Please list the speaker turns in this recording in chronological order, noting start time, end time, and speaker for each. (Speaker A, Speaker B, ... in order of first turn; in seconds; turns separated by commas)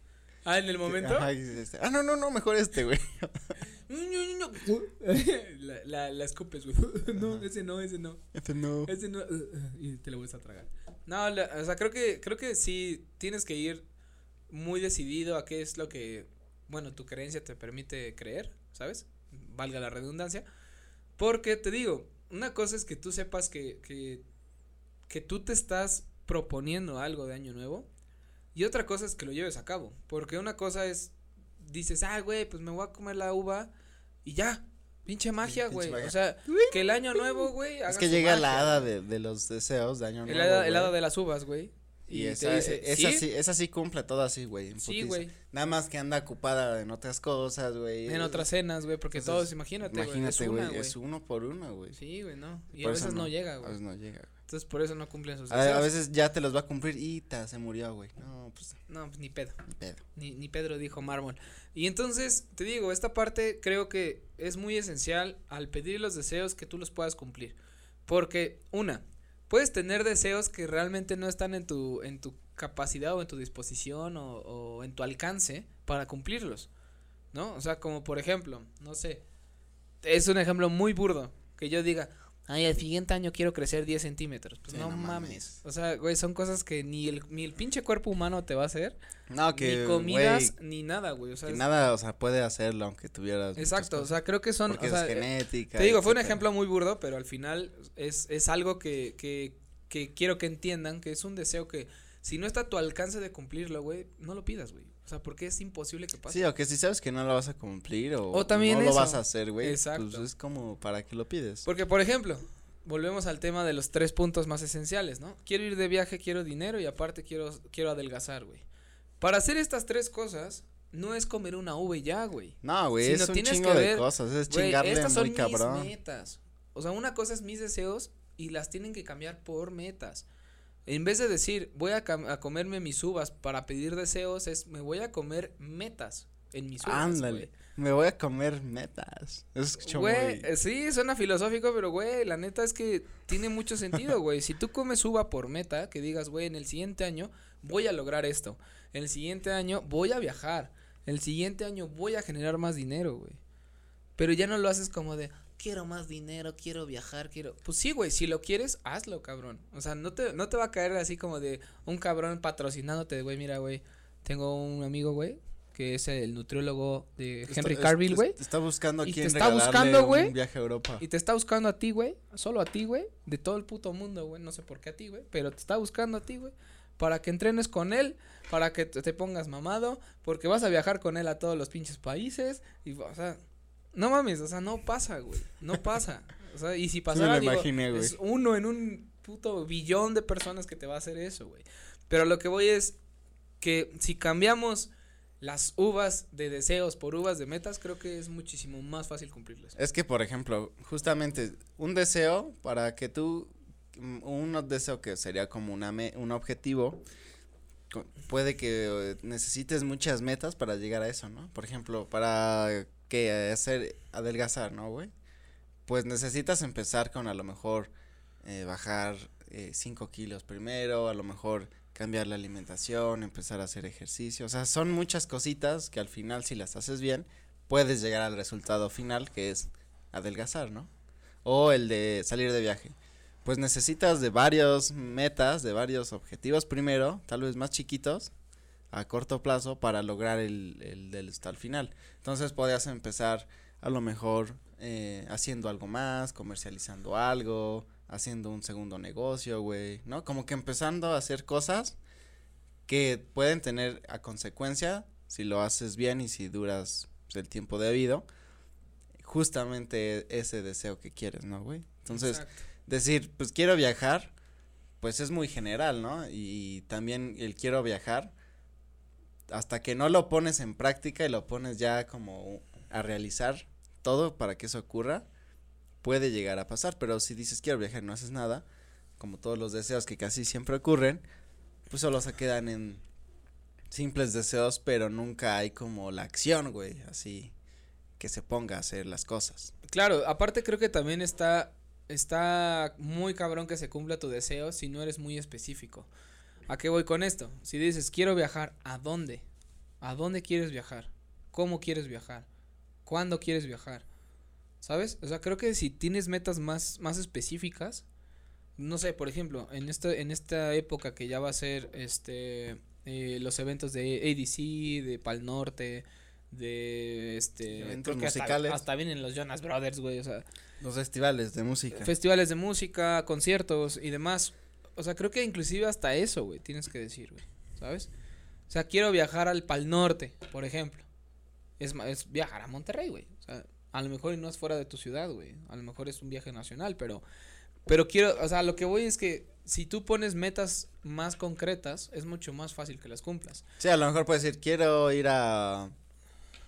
Speaker A: 0.4-1.3, Speaker B: 0.8-3.6, Speaker A: 3.9-8.2, Speaker B: 7.2-7.4, Speaker B: 8.3-8.9, Speaker A: 8.9-13.8, Speaker A: 14.5-20.4, Speaker A: 21.2-24.2, Speaker A: 25.1-27.9, Speaker A: 28.6-33.7, Speaker A: 34.2-38.9, Speaker B: 35.4-40.9, Speaker A: 40.3-43.3, Speaker B: 42.1-48.5, Speaker A: 44.8-45.3, Speaker A: 48.1-51.0, Speaker B: 49.1-52.0, Speaker A: 51.9-53.8, Speaker B: 52.8-54.3, Speaker A: 54.5-55.9, Speaker B: 55.5-58.8, Speaker A: 58.9-59.6, Speaker B: 59.7-60.0, Speaker A: 60.1-67.6, Speaker A: 68.1-76.7, Speaker A: 77.3-79.2, Speaker A: 80.0-89.0, Speaker B: 84.7-85.5, Speaker B: 89.3-90.5, Speaker A: 89.5-91.6, Speaker B: 91.4-96.4, Speaker A: 93.6-106.5, Speaker B: 106.3-111.7, Speaker A: 108.3-110.3, Speaker A: 111.7-118.7, Speaker A: 119.2-130.2, Speaker B: 122.6-125.9, Speaker A: 130.9-137.5, Speaker B: 136.8-140.5, Speaker A: 139.8-153.4, Speaker A: 154.2-168.4, Speaker B: 167.5-171.0, Speaker A: 169.0-170.3, Speaker A: 171.0-183.4, Speaker A: 183.9-192.9, Speaker B: 187.1-188.2, Speaker A: 193.6-199.8, Speaker B: 199.8-207.0, Speaker B: 207.9-215.1, Speaker B: 215.9-217.9, Speaker B: 218.4-230.9, Speaker B: 231.4-238.3, Speaker B: 238.9-252.0, Speaker B: 252.9-258.2, Speaker B: 259.2-264.3, Speaker A: 262.1-262.6, Speaker B: 265.0-268.3, Speaker B: 269.5-275.3, Speaker B: 276.0-278.6, Speaker B: 279.2-281.2, Speaker B: 281.9-283.0, Speaker B: 283.9-287.5, Speaker B: 288.2-289.7, Speaker A: 289.9-296.1, Speaker A: 296.7-299.4, Speaker A: 300.0-302.4, Speaker A: 303.1-304.1, Speaker A: 304.8-308.1, Speaker A: 308.8-320.4, Speaker B: 317.8-318.8, Speaker B: 320.8-322.1, Speaker A: 321.9-328.1, Speaker A: 328.7-331.1, Speaker A: 331.8-337.2, Speaker A: 337.9-343.6, Speaker B: 343.8-345.9